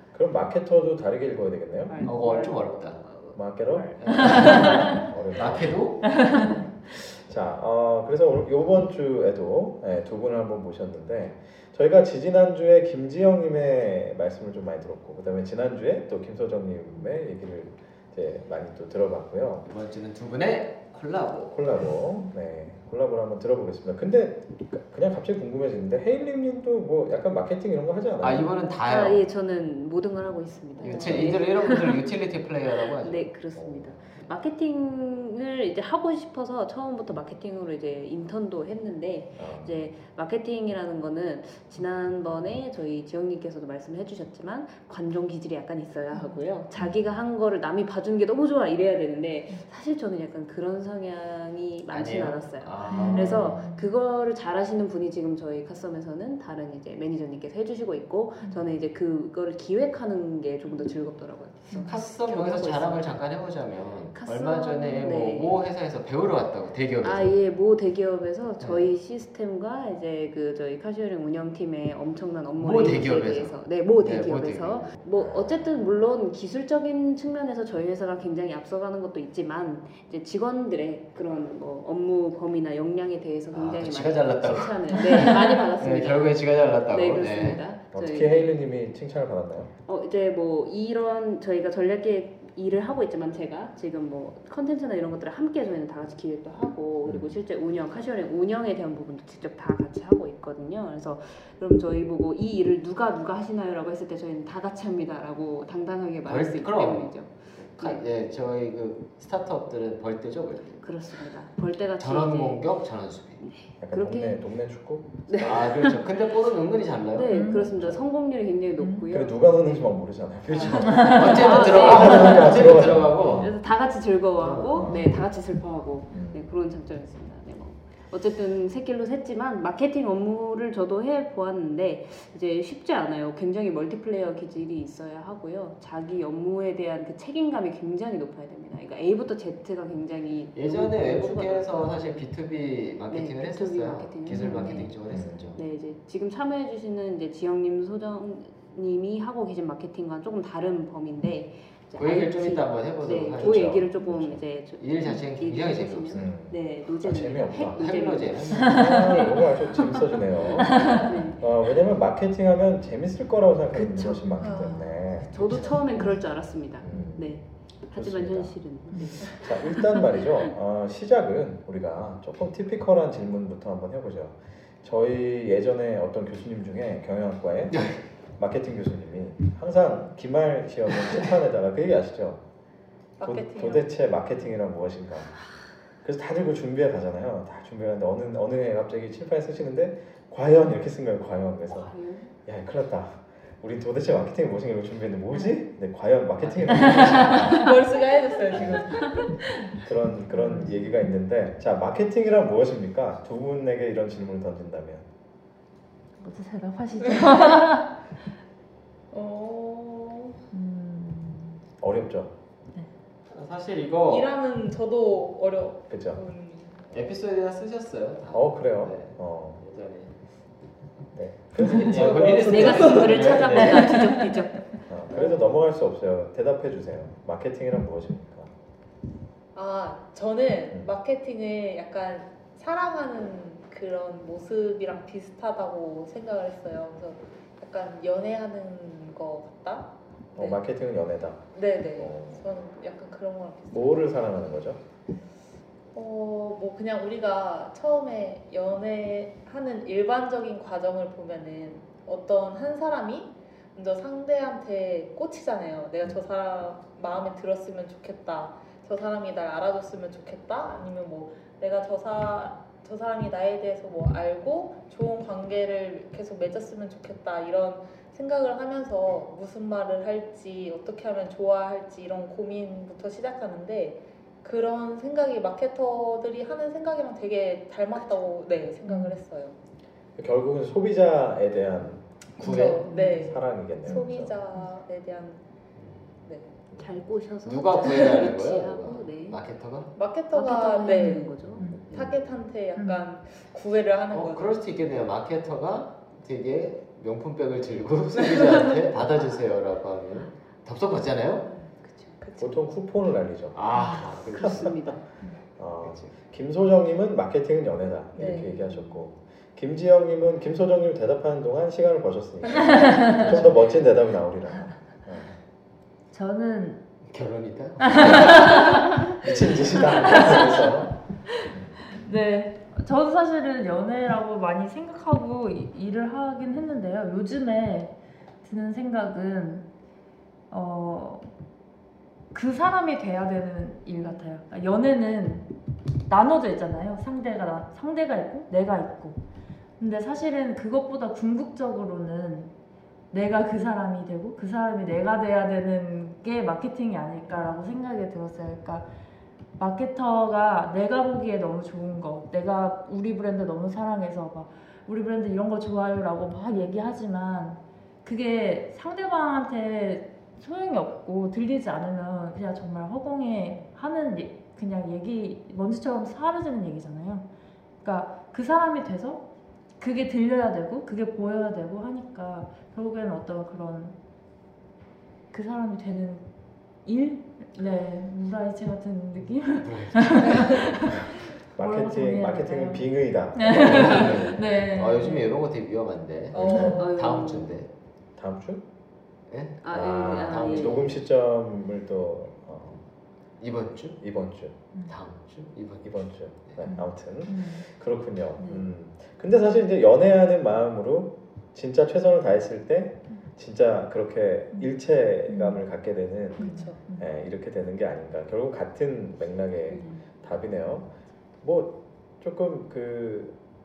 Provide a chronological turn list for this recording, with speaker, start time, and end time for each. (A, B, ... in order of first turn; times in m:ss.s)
0:00.1-0:02.1 A
0:01.9-0:05.0 B
0:02.0-0:03.0 C
0:03.4-0:04.2 A
0:04.0-0:06.2 C
0:04.9-0:06.0 A
0:06.2-0:06.6 D
0:06.9-0:19.7 A
0:19.7-0:21.9 C
0:21.5-0:28.5 A
0:28.2-0:29.3 C
0:28.8-0:32.1 B
0:30.8-0:33.3 C
0:32.9-1:03.2 B
0:33.5-0:34.0 A
0:39.4-0:39.9 A
0:46.1-0:46.9 D
0:51.9-0:53.7 C
0:52.9-0:53.9 D
1:01.8-1:07.4 C
1:04.1-1:05.6 B
1:07.0-1:28.6 B
1:08.6-1:08.9 C
1:12.6-1:15.6 C
1:23.5-1:27.6 C
1:27.9-1:29.7 A
1:29.9-1:48.0 B
1:46.3-1:50.9 C
1:50.8-1:52.7 B
1:52.0-1:53.5 C
1:53.4-1:54.4 B
1:53.8-1:55.9 A
1:55.3-1:56.0 B
1:55.4-1:57.3 C
1:57.1-1:59.9 B
1:57.3-1:57.7 D
1:58.8-1:59.1 D
1:59.1-2:03.5 A
2:00.5-2:03.5 C
2:00.5-2:22.2 B
2:00.9-2:01.4 D
2:04.4-2:04.9 C
2:04.8-2:05.2 A
2:06.1-2:06.5 A
2:20.6-2:25.6 C
2:23.1-2:25.0 B
2:24.3-2:24.9 D
2:25.1-2:25.6 A
2:25.6-2:41.4 B
2:32.0-2:36.3 C
2:33.3-2:33.9 A
2:36.1-2:37.8 A
2:37.7-2:39.1 C
2:38.6-2:45.8 A
2:43.7-2:45.0 D
2:44.4-2:45.7 E
2:45.3-2:50.3 B
2:46.8-2:48.6 A
2:46.9-2:47.2 D
2:48.9-2:49.4 D
2:49.2-3:02.4 A
2:57.7-2:58.0 C
3:03.2-3:03.9 E
3:03.2-3:05.4 A
3:06.0-3:11.9 A
3:11.7-3:12.3 B
3:12.5-3:17.6 A
3:16.4-3:17.5 C
3:17.4-3:19.3 E
3:18.5-3:19.0 A
3:19.7-3:25.1 A
3:20.3-3:21.0 D
3:26.2-3:28.0 D
3:27.0-3:27.8 E
3:29.1-3:30.4 E
3:30.5-3:31.6 D
3:31.8-3:32.3 A
3:33.3-3:34.3 C
3:34.1-3:36.9 E
3:35.9-3:36.2 A
3:36.9-3:40.1 C
3:38.3-3:39.6 A
3:41.1-3:43.4 A
3:41.6-3:41.9 D
3:41.6-3:44.1 C
3:42.2-3:44.7 B
3:43.9-3:44.4 D
3:44.9-3:48.6 A
3:45.1-3:45.6 E
3:49.5-4:00.6 E
4:00.4-4:02.5 A
4:01.5-4:04.3 E
4:03.7-4:04.8 A
4:05.9-4:39.6 E
4:38.9-4:39.2 D
4:40.2-4:44.4 A
4:42.4-4:45.4 E
4:42.4-4:42.9 C
4:42.5-4:43.3 D
4:43.8-4:44.7 D
4:45.8-4:46.2 C
4:46.2-4:46.6 E
4:46.7-4:47.0 A
4:46.8-4:49.4 B
4:47.4-4:49.9 C
4:49.9-4:54.6 E
4:50.3-4:51.8 B
4:50.9-4:51.9 D
4:51.4-4:52.2 C
4:51.7-4:52.2 A
4:52.8-4:53.1 D
4:54.1-5:01.5 C
5:01.6-5:02.2 B
5:02.2-5:02.7 E
5:02.4-5:04.4 A
5:03.5-5:05.0 C
5:03.7-5:04.4 D
5:04.3-5:05.0 B
5:05.6-5:15.4 A
5:05.8-5:06.1 C
5:08.2-5:08.9 E
5:12.6-5:13.2 E
5:13.2-5:13.8 C
5:16.1-5:16.8 D
5:17.1-5:18.8 C
5:17.8-5:19.1 D
5:19.2-5:21.0 A
5:19.8-5:20.7 C
5:20.0-5:20.7 D
5:21.5-5:21.8 A
5:21.9-5:29.7 D
5:30.5-5:31.3 D
5:32.3-5:35.5 D
5:36.1-5:39.2 D
5:39.8-5:42.5 D
5:43.1-5:48.9 D
5:49.6-6:07.3 D
6:07.8-6:14.0 D
6:15.3-6:16.3 D
6:16.8-6:25.3 D
6:19.6-6:21.0 C
6:20.8-6:24.4 A
6:23.5-6:27.7 C
6:26.3-6:26.8 A
6:26.3-6:27.0 E
6:26.7-6:27.6 B
6:28.2-6:28.6 A
6:29.3-6:31.0 C
6:29.6-6:30.9 B
6:29.7-6:32.8 A
6:33.4-6:34.0 C
6:34.0-6:34.6 A
6:34.9-6:36.7 C
6:35.8-6:50.9 A
6:36.7-6:37.7 D
6:45.3-6:45.6 D
6:46.4-6:46.8 E
6:46.4-6:47.1 D
6:49.7-6:50.0 B
6:51.4-6:53.4 A